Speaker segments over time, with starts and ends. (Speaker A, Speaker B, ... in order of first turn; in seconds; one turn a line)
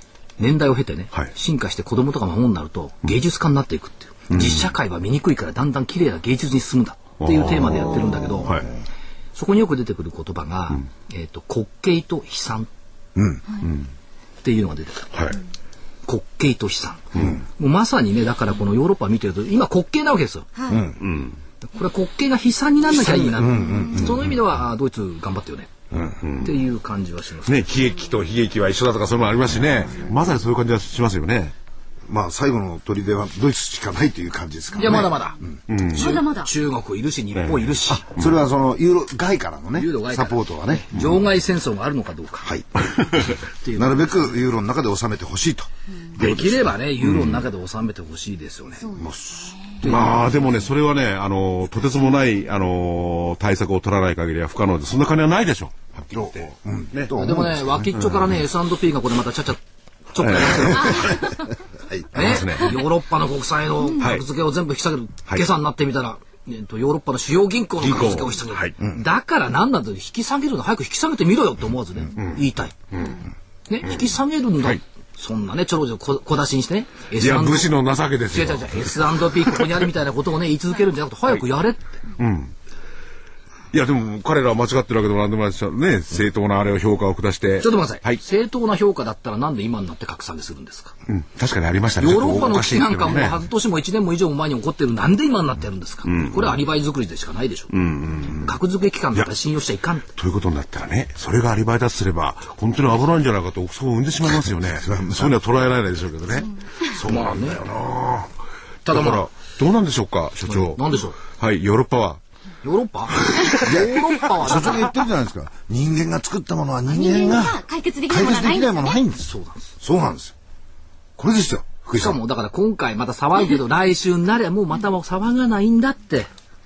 Speaker A: 0.4-8.6
Speaker B: 4.3-4.7
Speaker B: 7.2-8.7
Speaker A: 9.3-12.7
Speaker C: 13.2-13.4
Speaker A: 14.4-15.1
Speaker B: 15.1-15.4
Speaker A: 16.1-20.5
Speaker D: 20.6-20.9
Speaker C: 20.7-21.0
Speaker B: 21.0-21.4
Speaker A: 21.7-25.7
Speaker C: 23.1-24.3
Speaker D: 23.7-24.0
Speaker C: 25.9-26.2
Speaker B: 26.2-26.5
Speaker A: 26.4-27.6
Speaker B: 27.5-31.5
Speaker C: 32.1-35.2
Speaker A: 34.8-35.4
Speaker B: 35.7-36.2
Speaker D: 36.0-36.5
Speaker A: 36.0-38.0
Speaker B: 37.4-38.4
Speaker C: 37.9-40.9
Speaker A: 39.8-42.5
Speaker C: 42.4-46.6
Speaker B: 43.0-43.3
Speaker A: 43.2-44.4
Speaker A: 46.2-48.9
Speaker B: 47.0-47.5
Speaker D: 48.8-49.9
Speaker C: 48.9-49.5
Speaker A: 49.8-50.3
Speaker B: 49.8-57.2
Speaker C: 56.0-57.6
Speaker A: 57.2-59.6
Speaker B: 57.9-58.2
Speaker A: 60.1-61.3
Speaker B: 60.2-61.3
Speaker D: 60.9-61.4
Speaker C: 61.0-61.3
Speaker C: 61.9-62.4
Speaker A: 62.1-72.8
Speaker B: 62.1-62.8
Speaker B: 64.0-64.2
Speaker B: 67.8-68.7
Speaker B: 72.2-73.2
Speaker A: 73.7-77.7
Speaker B: 77.2-79.8
Speaker A: 78.3-82.0
Speaker B: 82.2-82.5
Speaker B: 83.7-88.2
Speaker A: 87.6-91.0
Speaker B: 91.1-93.4
Speaker A: 92.0-97.8
Speaker B: 96.0-96.6
Speaker B: 97.7-98.5
Speaker A: 98.3-100.1
Speaker B: 100.2-108.3
Speaker C: 104.8-105.3
Speaker A: 107.0-107.6
Speaker A: 108.8-109.3
Speaker B: 108.9-112.2
Speaker A: 110.5-111.2
Speaker A: 112.6-114.9
Speaker C: 113.6-119.2
Speaker D: 116.9-119.0
Speaker A: 119.2-119.7
Speaker C: 119.8-120.3
Speaker C: 121.2-122.2
Speaker A: 121.9-126.3